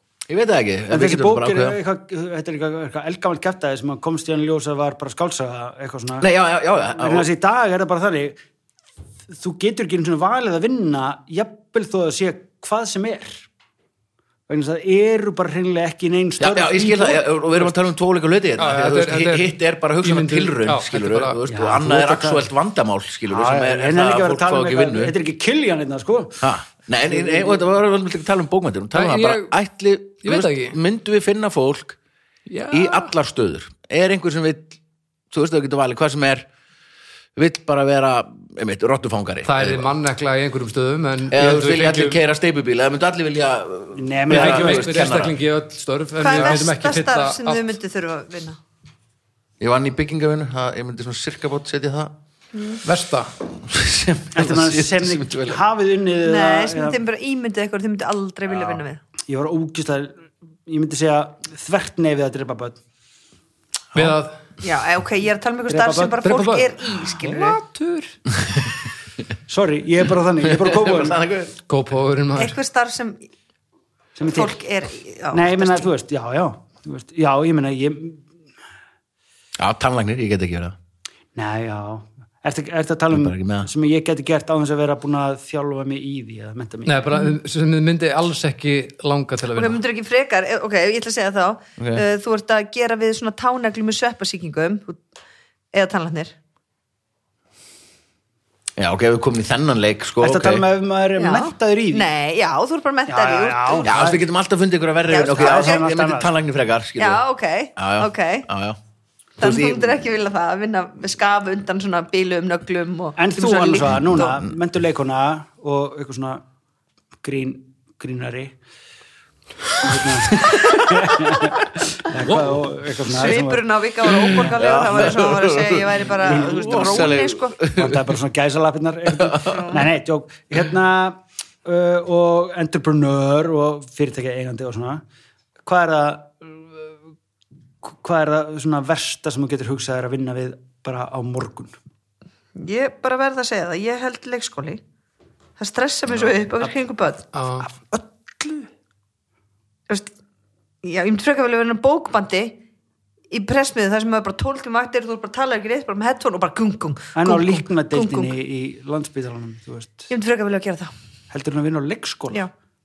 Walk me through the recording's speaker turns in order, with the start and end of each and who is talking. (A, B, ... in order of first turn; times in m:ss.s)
0:00.3-0:01.8 A
0:00.9-0:06.3 B
0:06.2-0:07.3 A
0:07.0-0:08.4 B
0:09.3-0:13.5 B
0:14.5-0:17.7 B
0:16.4-0:25.1 A
0:18.6-0:21.4 C
0:21.5-0:22.5 B
0:23.3-0:26.5 B
0:26.4-0:32.0 A
0:27.0-0:27.6 B
0:28.9-0:29.5 C
0:30.2-0:30.8 C
0:32.5-0:33.1 C
0:32.7-0:34.8 A
0:35.3-0:36.4 A
0:37.4-0:39.9 A
0:39.4-0:42.2 C
0:41.3-0:45.3 A
0:43.9-0:44.9 B
0:44.3-0:47.7 C
0:46.2-0:48.6 D
0:49.6-0:52.1 A
0:52.5-0:52.8 D
0:52.8-0:53.3 C
0:53.6-0:55.6 A
0:54.3-0:57.0 B
0:56.2-0:59.0 D
0:58.5-0:58.8 A
0:59.3-1:02.8 B
1:03.9-1:04.4 C
1:04.6-1:07.6 D
1:05.7-1:06.3 B
1:06.2-1:08.2 C
1:09.5-1:11.2 B
1:10.4-1:11.5 A
1:11.7-1:12.6 C
1:12.4-1:13.2 D
1:14.2-1:14.5 B
1:14.3-1:15.9 D
1:15.3-1:18.2 B
1:19.6-1:20.8 A
1:21.3-1:27.1 B
1:23.1-1:23.7 A
1:26.8-1:29.8 C
1:29.5-1:35.0 D
1:31.8-1:32.0 A
1:35.7-1:36.3 D
1:38.8-1:40.6 A
1:40.2-1:42.1 B
1:41.2-1:44.0 D
1:43.1-1:44.2 B
1:43.9-1:47.2 A
1:45.1-1:45.8 D
1:45.3-1:46.3 B
1:47.0-1:48.5 D
1:47.8-1:48.8 A
1:49.4-1:54.4 D
1:49.4-1:50.0 A
1:53.2-1:56.4 B
1:57.2-1:58.6 B
1:59.8-2:05.1 B
2:00.6-2:00.8 D
2:02.2-2:02.6 C
2:03.0-2:07.6 D
2:04.3-2:08.0 A
2:06.2-2:07.2 B
2:07.7-2:15.0 B
2:09.2-2:09.6 A
2:09.4-2:09.8 D
2:15.6-2:16.9 B
2:17.8-2:21.8 B
2:22.6-2:24.8 D
2:25.6-2:28.7 D
2:27.3-2:27.7 C
2:29.9-2:30.1 D
2:30.8-2:32.6 D
2:33.3-2:38.4 D
2:37.1-2:40.1 B
2:40.1-2:40.9 D
2:41.3-2:42.4 B